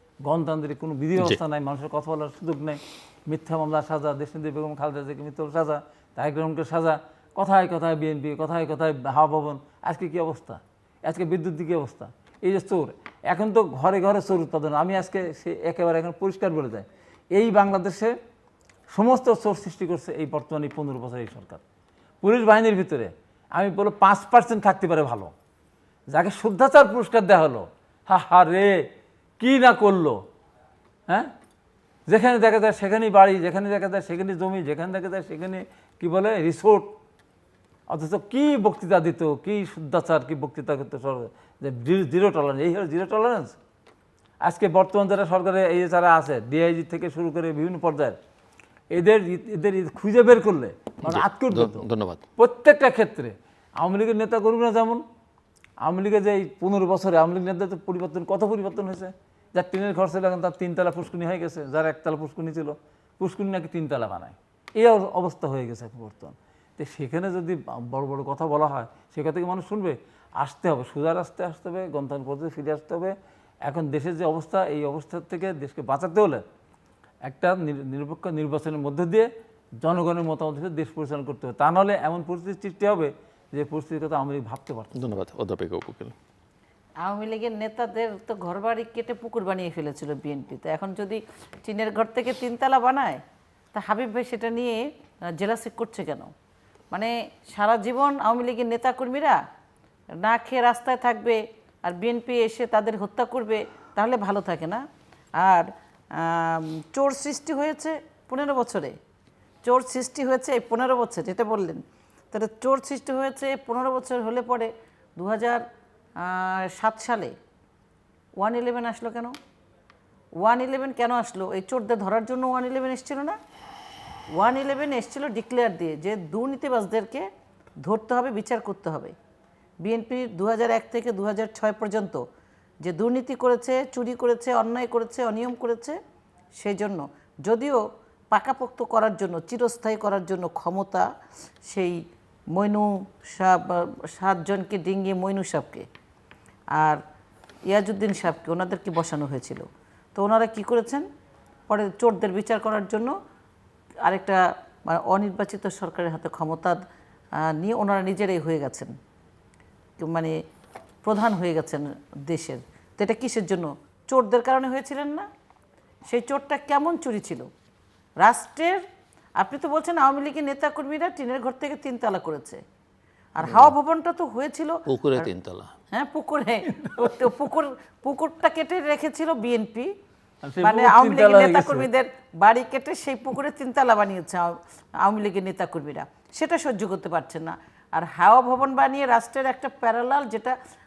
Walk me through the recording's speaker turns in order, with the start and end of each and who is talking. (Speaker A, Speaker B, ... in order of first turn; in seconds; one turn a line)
Speaker A: 0.2-18.1
Speaker A: 18.9-21.6
Speaker A: 22.2-25.3
Speaker A: 26.1-28.9
Speaker A: 29.4-30.2
Speaker A: 32.1-36.9
Speaker A: 37.9-43.5
Speaker A: 44.4-48.2
Speaker A: 48.9-55.0
Speaker B: 51.0-52.2
Speaker A: 55.8-76.4
Speaker A: 77.2-79.3
Speaker A: 79.8-85.2
Speaker B: 84.9-86.1
Speaker C: 87.0-93.2
Speaker C: 93.7-94.8
Speaker C: 95.3-96.3
Speaker C: 96.9-99.4
Speaker C: 100.2-104.8
Speaker C: 105.4-108.9
Speaker C: 109.6-115.6
Speaker C: 116.2-117.3
Speaker C: 118.4-119.3
Speaker C: 120.4-123.3
Speaker C: 124.3-127.3
Speaker C: 127.8-129.1
Speaker C: 129.8-132.2
Speaker C: 132.8-136.0
Speaker C: 136.6-137.8
Speaker C: 138.3-141.0
Speaker C: 141.7-141.9
Speaker C: 142.5-145.8
Speaker C: 147.7-149.6
Speaker C: 150.2-151.0
Speaker C: 151.7-153.1
Speaker C: 154.0-156.8
Speaker C: 157.4-158.9
Speaker C: 160.0-160.3
Speaker C: 161.0-165.3
Speaker C: 166.1-167.4
Speaker C: 168.2-168.8
Speaker C: 169.4-172.6
Speaker C: 173.3-175.3
Speaker B: 173.4-173.7
Speaker B: 174.9-175.7
Speaker C: 175.9-179.9
Speaker A: 180.4-181.9
Speaker C: 180.6-190.5